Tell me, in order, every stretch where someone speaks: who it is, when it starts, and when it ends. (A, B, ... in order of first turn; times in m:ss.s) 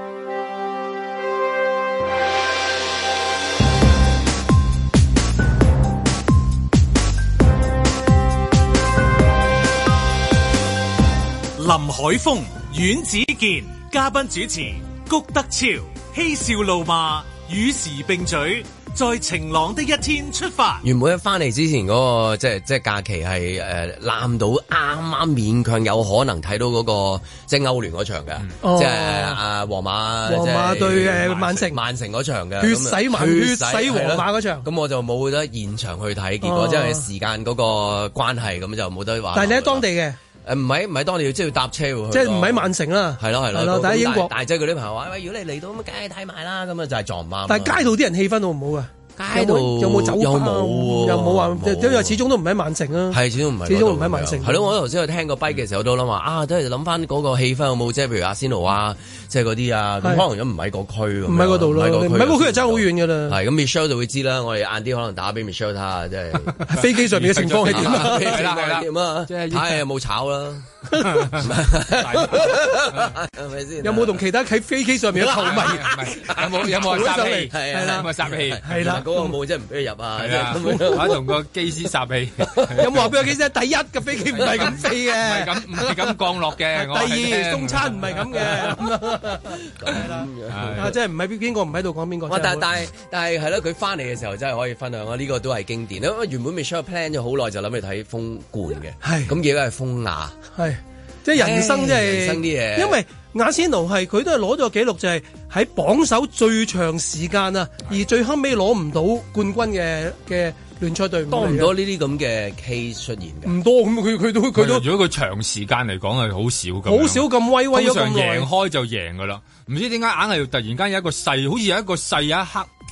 0:11.6-0:20.8 A
0:20.8-0:39.8 B
0:28.6-0:29.4 C
0:30.3-0:31.8 C
0:32.6-0:34.7 C
0:36.4-0:37.0 C
0:39.3-0:40.2 C
0:40.4-0:47.9 B
0:42.1-0:44.3 C
0:47.5-0:54.7 C
0:49.2-0:52.2 B
0:53.1-1:06.6 B
1:01.3-1:03.4 C
1:06.7-1:09.8 D
1:06.7-1:08.4 C
1:07.6-1:10.7 B
1:11.0-1:13.1 D
1:11.4-1:14.2 B
1:13.8-1:18.1 C
1:15.2-1:21.2 B
1:15.4-1:18.7 D
1:18.6-1:19.3 C
1:20.2-1:23.1 D
1:20.7-1:21.2 C
1:22.5-1:22.8 B
1:22.8-1:32.7 C
1:24.3-1:28.7 D
1:24.4-1:24.7 B
1:29.7-1:30.9 B
1:30.5-1:31.0 D
1:32.3-1:40.4 B
1:39.0-1:39.3 C
1:40.6-1:51.7 C
1:41.4-1:43.0 B
1:51.3-1:53.5 B
1:53.4-1:54.9 C
1:54.6-2:02.7 D
1:56.9-1:58.5 C